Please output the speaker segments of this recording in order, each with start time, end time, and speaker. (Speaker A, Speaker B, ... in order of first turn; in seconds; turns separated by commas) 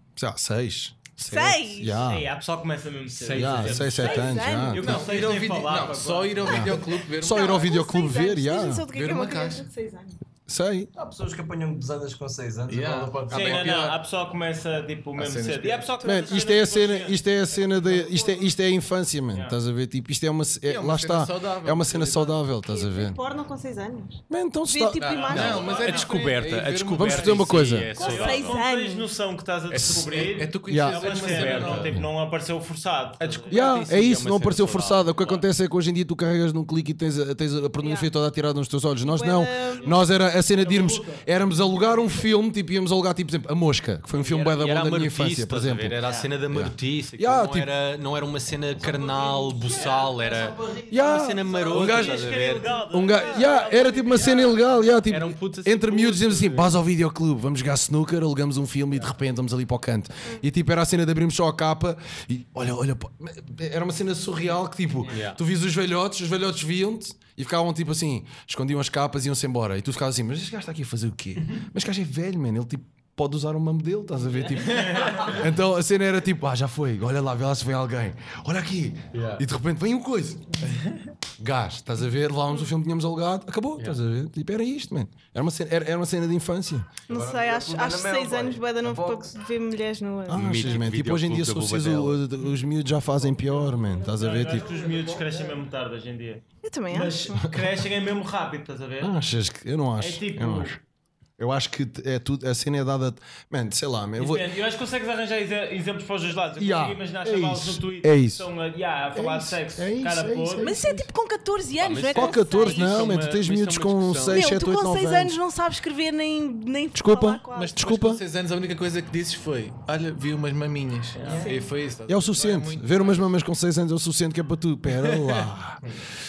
Speaker A: 0.2-2.3, Speaker B: 1.3-2.0, Speaker C: 1.9-6.8, Speaker D: 3.2-4.2, Speaker A: 3.2-5.1, Speaker B: 4.0-4.8, Speaker D: 4.8-7.7, Speaker A: 6.5-8.9, Speaker B: 7.3-10.2, Speaker D: 8.9-9.7, Speaker A: 10.5-10.9, Speaker E: 10.9-13.9, Speaker D: 12.7-14.0, Speaker C: 13.3-17.2, Speaker D: 15.2-16.0, Speaker A: 16.0-23.2, Speaker D: 17.8-18.2, Speaker D: 20.6-22.4, Speaker B: 22.6-25.8, Speaker A: 24.3-25.5, Speaker D: 25.0-27.8, Speaker F: 25.3-28.6, Speaker C: 25.4-26.2, Speaker A: 27.0-27.9, Speaker C: 27.9-33.9, Speaker B: 28.0-29.1, Speaker D: 29.7-32.0, Speaker A: 30.7-31.2, Speaker F: 31.1-32.0, Speaker F: 33.2-35.5, Speaker A: 33.5-46.0, Speaker B: 37.8-38.1, Speaker B: 39.0-39.9, Speaker C: 39.8-41.2, Speaker F: 44.1-52.8, Speaker C: 46.0-46.3, Speaker A: 46.5-47.7, Speaker E: 48.8-51.8, Speaker C: 49.7-50.0, Speaker A: 50.9-52.3, Speaker C: 51.7-54.6, Speaker A: 52.9-80.6, Speaker F: 55.1-56.8, Speaker F: 65.1-65.4, Speaker C: 74.8-75.3, Speaker F: 79.1-79.5, Speaker A: 81.4-86.9, Speaker E: 87.1-89.3, Speaker B: 87.1-90.5, Speaker A: 90.3-94.8, Speaker F: 90.3-92.3, Speaker C: 94.0-99.1, Speaker E: 94.0-95.6, Speaker B: 96.6-97.5, Speaker A: 97.4-97.7, Speaker A: 99.0-100.8, Speaker C: 100.0-100.8, Speaker A: 101.4-104.5, Speaker C: 104.2-110.7, Speaker A: 106.6-108.5, Speaker A: 109.1-111.1, Speaker B: 110.6-112.9, Speaker F: 111.8-114.5, Speaker A: 112.1-115.4, Speaker C: 112.9-113.2, Speaker B: 114.3-117.8, Speaker A: 117.0-118.2, Speaker D: 117.5-123.3, Speaker C: 121.2-121.5, Speaker B: 121.2-121.7, Speaker A: 122.1-125.8, Speaker D: 125.0-125.4